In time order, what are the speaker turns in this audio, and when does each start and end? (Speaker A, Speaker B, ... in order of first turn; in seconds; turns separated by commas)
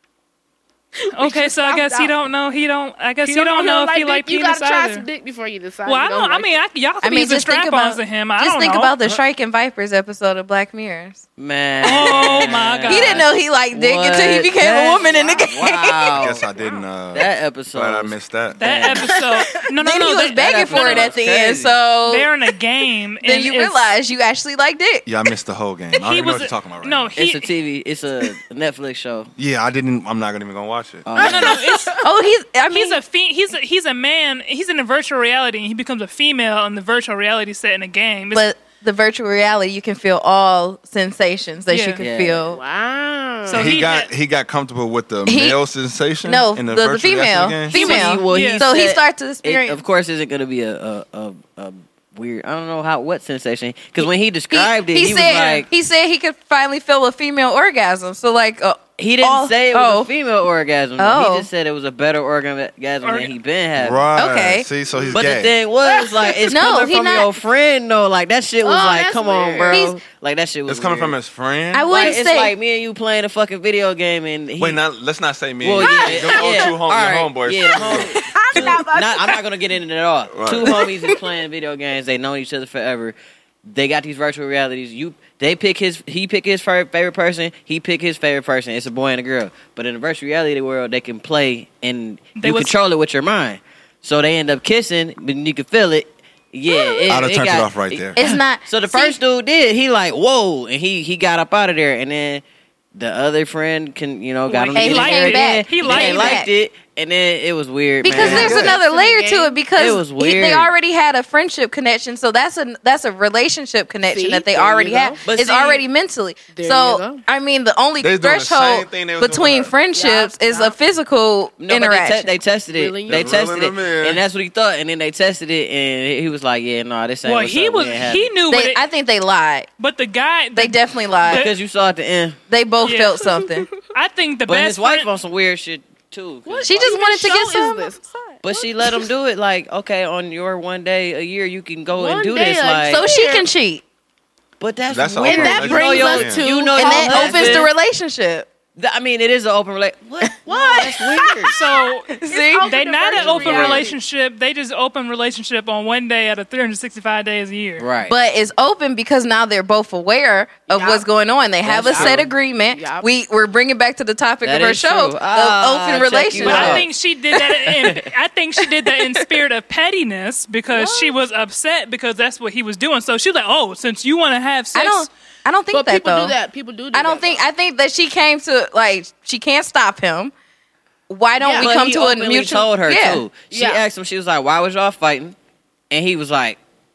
Speaker A: 1.0-2.1, Speaker B: 1.1-5.0, Speaker A: 3.2-6.6, Speaker B: 5.8-9.0, Speaker C: 7.0-11.2, Speaker D: 11.4-16.5, Speaker B: 11.8-13.2, Speaker C: 11.8-16.2, Speaker E: 16.2-18.6, Speaker D: 17.1-19.2, Speaker B: 18.6-21.1, Speaker C: 19.8-22.3, Speaker D: 20.4-21.8, Speaker B: 22.1-23.8, Speaker C: 23.2-25.1, Speaker E: 25.1-27.1, Speaker B: 26.1-27.5, Speaker D: 27.1-29.3, Speaker E: 29.4-31.2, Speaker D: 31.1-31.6, Speaker B: 31.2-31.9, Speaker A: 31.2-32.0, Speaker C: 32.0-33.0, Speaker B: 32.7-38.5, Speaker C: 38.3-42.6, Speaker B: 41.7-42.0, Speaker D: 42.0-42.4, Speaker A: 42.5-43.7, Speaker B: 43.5-44.1, Speaker E: 43.5-47.7, Speaker C: 45.3-45.6, Speaker C: 46.2-49.8, Speaker B: 47.7-48.6, Speaker D: 47.7-55.7, Speaker C: 54.5-60.1, Speaker D: 59.0-64.1, Speaker C: 61.0-61.5, Speaker B: 63.0-63.3, Speaker E: 63.8-65.5, Speaker C: 64.1-64.7, Speaker D: 65.1-71.2, Speaker A: 65.8-66.5, Speaker C: 66.5-67.3, Speaker A: 68.6-69.8, Speaker C: 69.7-70.0, Speaker E: 70.7-72.0, Speaker C: 71.7-72.5, Speaker D: 71.9-74.8, Speaker E: 74.6-78.8, Speaker D: 75.6-83.2, Speaker A: 75.8-76.8, Speaker A: 77.7-79.4, Speaker E: 80.3-80.8, Speaker D: 83.7-102.4, Speaker B: 92.3-92.7, Speaker C: 96.7-97.2, Speaker E: 97.1-98.2, Speaker C: 98.2-99.2, Speaker D: 102.9-108.7, Speaker B: 104.5-106.4, Speaker C: 104.7-106.5, Speaker C: 108.0-122.3, Speaker E: 108.1-108.7, Speaker A: 108.2-109.6, Speaker D: 109.7-110.7, Speaker A: 114.0-115.2, Speaker D: 115.2-115.8, Speaker A: 116.5-117.2, Speaker E: 118.0-119.7, Speaker A: 119.9-120.8, Speaker D: 121.6-128.4, Speaker A: 122.7-123.5, Speaker E: 123.1-124.2, Speaker B: 127.2-128.8, Speaker C: 128.5-129.7, Speaker B: 129.8-131.5, Speaker C: 130.6-131.5, Speaker D: 131.2-132.4, Speaker C: 132.5-133.7, Speaker B: 132.8-135.1, Speaker A: 133.4-133.7, Speaker D: 134.4-136.9, Speaker A: 136.4-139.1, Speaker C: 136.6-138.3, Speaker D: 138.4-143.0, Speaker A: 141.9-143.5, Speaker C: 142.9-143.8, Speaker D: 144.6-147.7, Speaker E: 144.9-146.4, Speaker A: 145.2-147.7, Speaker C: 146.5-148.5, Speaker D: 148.8-151.5, Speaker A: 150.4-151.6, Speaker C: 150.9-151.4, Speaker B: 151.5-157.8, Speaker C: 152.1-153.9, Speaker A: 152.2-154.0, Speaker D: 153.3-153.7, Speaker D: 157.8-158.1, Speaker C: 158.1-166.9, Speaker A: 160.7-161.1, Speaker D: 161.6-162.3, Speaker A: 161.8-163.1, Speaker D: 164.4-166.9, Speaker B: 166.4-175.1, Speaker D: 167.6-168.1, Speaker A: 170.7-171.1, Speaker C: 174.7-176.3, Speaker A: 175.7-177.5, Speaker C: 176.9-180.3, Speaker C: 181.1-183.2, Speaker A: 181.4-181.7, Speaker D: 181.6-185.3, Speaker A: 183.5-183.8, Speaker D: 185.9-186.6